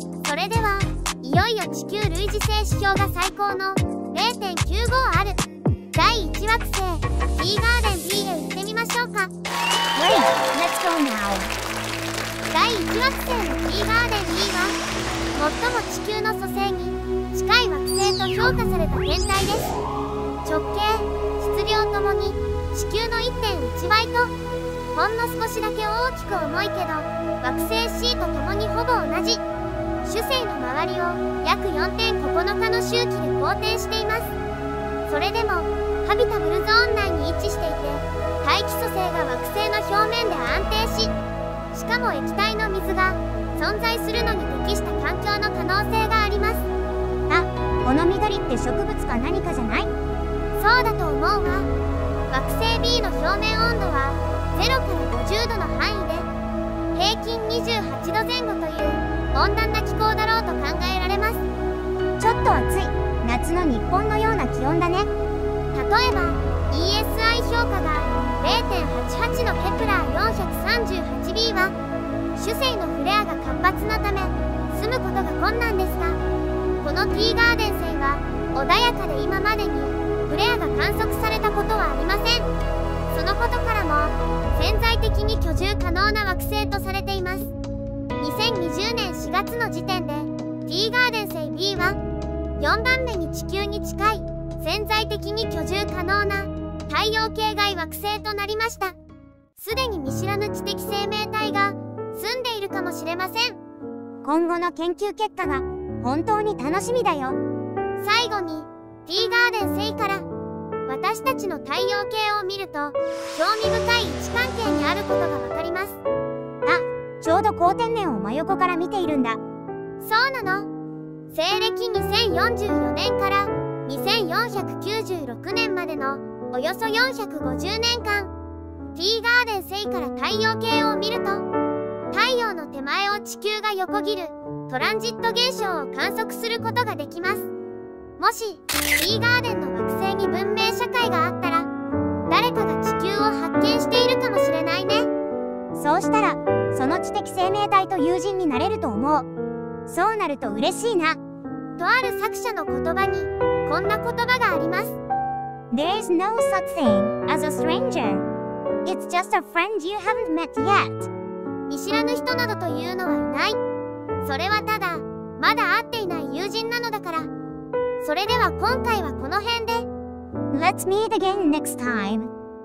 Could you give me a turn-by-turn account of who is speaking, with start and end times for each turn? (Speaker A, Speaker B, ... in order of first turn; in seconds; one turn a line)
Speaker A: 0.2-5.4
Speaker A: 5.9-9.3
Speaker B: 9.9-11.5
Speaker A: 12.5-14.8
Speaker A: 15.3-19.8
Speaker A: 20.4-24.3
Speaker A: 24.9-29.4
Speaker A: 30.0-34.4
Speaker A: 35.1-41.1
Speaker A: 41.7-46.7
Speaker B: 47.3-49.9
Speaker A: 50.6-51.7
Speaker A: 52.3-56.3
Speaker A: 56.9-61.5
Speaker B: 62.2-65.1
Speaker A: 65.7-71.8
Speaker A: 72.4-76.2
Speaker A: 76.8-82.5
Speaker A: 83.1-87.5
Speaker A: 88.2-92.0
Speaker A: 92.6-99.0
Speaker A: 99.6-103.6
Speaker B: 104.2-107.4
Speaker A: 108.0-110.3
Speaker A: 110.9-116.0
Speaker B: 116.7-119.4
Speaker A: 120.0-120.7
Speaker A: 121.3-128.3
Speaker A: 128.9-131.5
Speaker A: 132.1-137.5
Speaker A: 138.2-141.7
Speaker A: 142.3-145.1
Speaker B: 145.8-149.3
Speaker B: 149.9-151.2
Speaker A: 151.8-155.0
Speaker B: 155.7-158.3
Speaker B: 158.8-161.1
Speaker A: 161.7-163.6
Speaker A: 164.2-167.3
Speaker A: 168.0-169.9
Speaker B: 170.5-172.3